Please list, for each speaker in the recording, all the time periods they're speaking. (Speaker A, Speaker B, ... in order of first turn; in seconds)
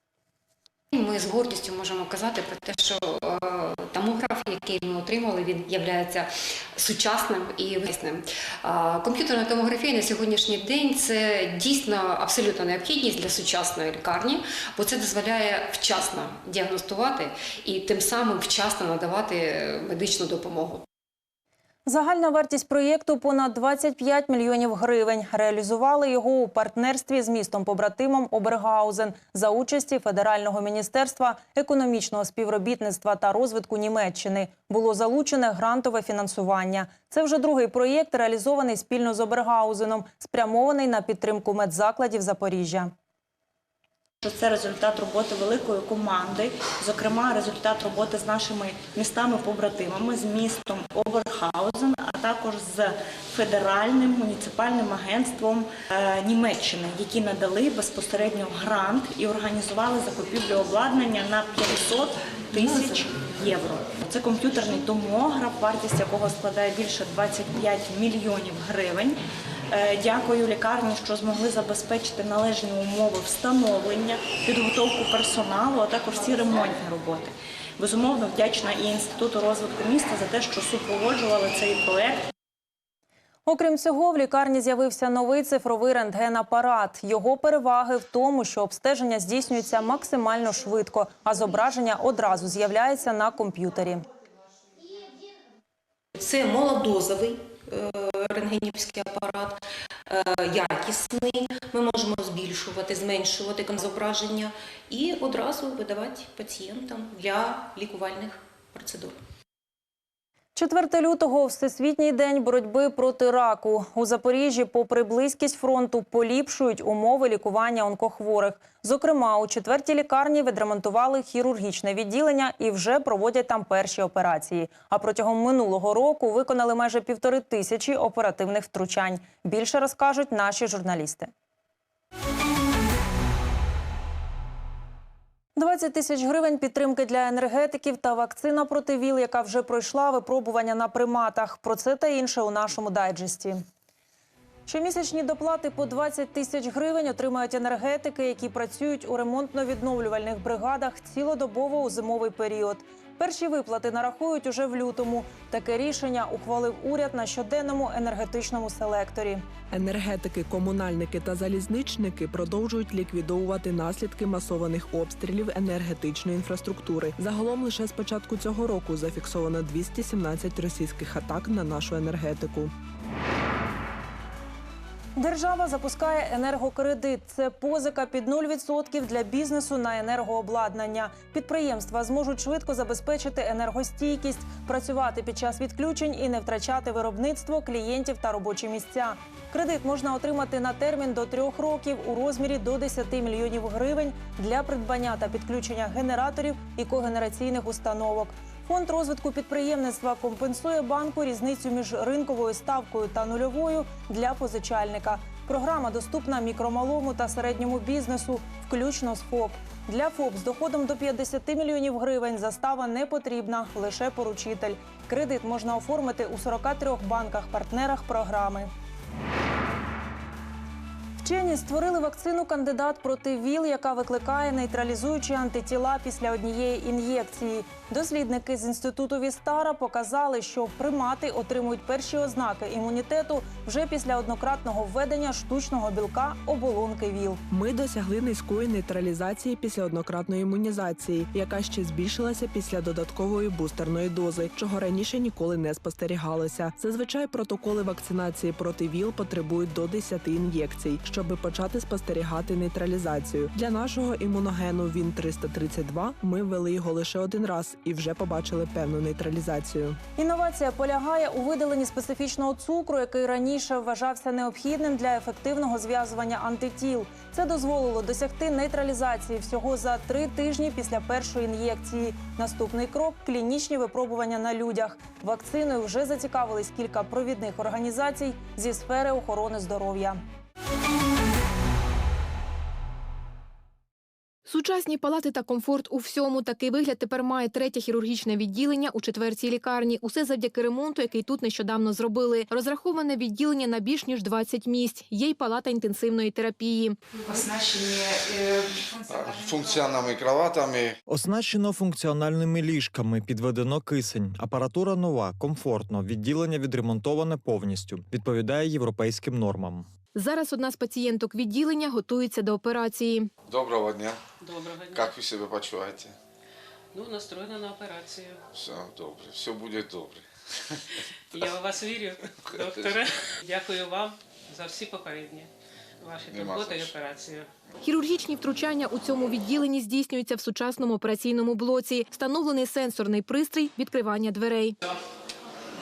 Speaker A: 0.9-20.8
Speaker B: 21.9-42.9, 83.5-94.0, 110.6-131.3, 135.6-143.6, 144.7-159.4, 175.2-218.7, 221.2-237.4, 260.2-280.2
Speaker C: 44.2-69.2, 69.7-82.3
Speaker D: 96.2-109.2
Speaker E: 159.7-172.7, 237.5-260.0
Speaker F: 284.5-297.0, 310.1-313.3, 327.8-334.8
Speaker G: 299.1-300.9, 313.5-314.2, 314.9-316.1, 318.5-320.2, 326.3-326.8
Speaker H: 301.1-309.9
Speaker I: 314.4-315.2, 316.9-318.4, 321.3-325.5, 326.0-327.5